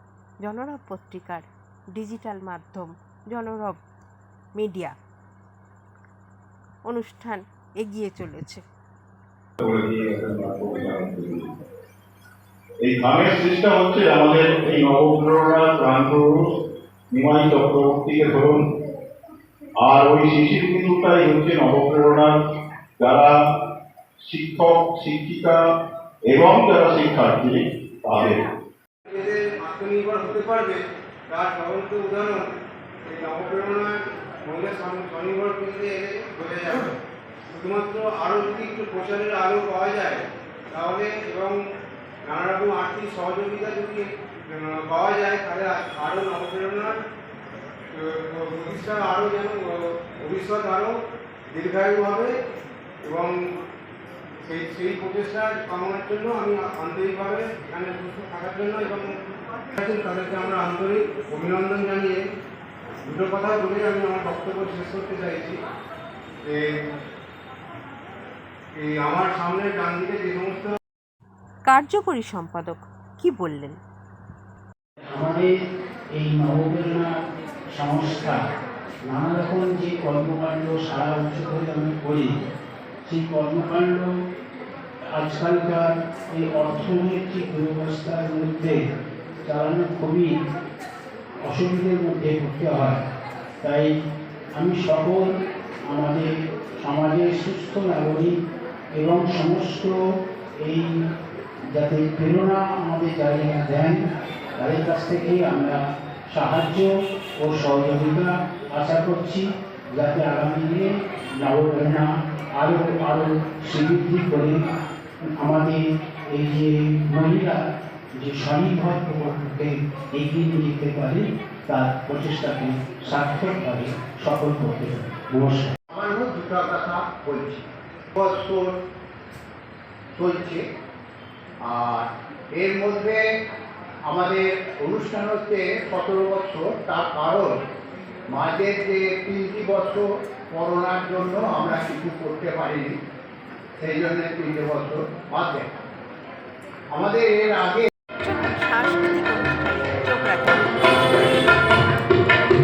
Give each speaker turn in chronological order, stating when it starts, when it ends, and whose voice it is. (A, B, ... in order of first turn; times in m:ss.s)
0:00.4-0:03.8 A
0:04.6-0:05.0 A
0:06.9-0:08.6 A
0:09.6-0:11.6 B
0:12.8-0:16.5 B
0:17.1-0:18.6 B
0:19.8-0:22.4 B
0:23.0-0:23.4 B
0:24.2-0:25.6 B
0:26.3-0:28.4 B
0:29.1-0:32.5 C
0:33.1-0:37.0 C
0:37.5-0:40.2 C
0:40.7-0:41.6 C
0:42.3-0:47.0 C
0:48.0-0:51.0 C
0:51.5-0:52.3 C
0:53.0-0:53.4 C
0:54.5-0:59.1 C
0:59.8-1:02.2 C
1:03.1-1:05.6 C
1:06.5-1:06.7 C
1:08.8-1:10.8 C
1:11.7-1:13.8 A
1:15.1-1:15.5 D
1:16.2-1:17.1 D
1:17.7-1:18.4 D
1:19.1-1:22.4 D
1:23.1-1:24.1 D
1:25.2-1:28.8 D
1:29.5-1:30.3 D
1:31.5-1:33.0 D
1:33.6-1:33.9 D
1:34.6-1:35.3 D
1:35.9-1:38.3 D
1:39.0-1:40.0 D
1:40.6-1:41.0 D
1:41.8-1:44.0 D
1:44.6-1:50.9 D
1:51.4-1:54.6 D
1:55.4-1:55.8 D
1:56.4-1:57.6 D
1:58.2-2:05.7 D
2:05.9-2:07.6 E
2:08.2-2:08.8 E
2:10.2-2:10.6 E
2:11.6-2:13.2 E
2:14.1-2:17.6 E
2:18.3-2:23.0 E
2:23.8-2:25.7 E
2:26.9-2:27.9 E
2:28.2-2:31.4 A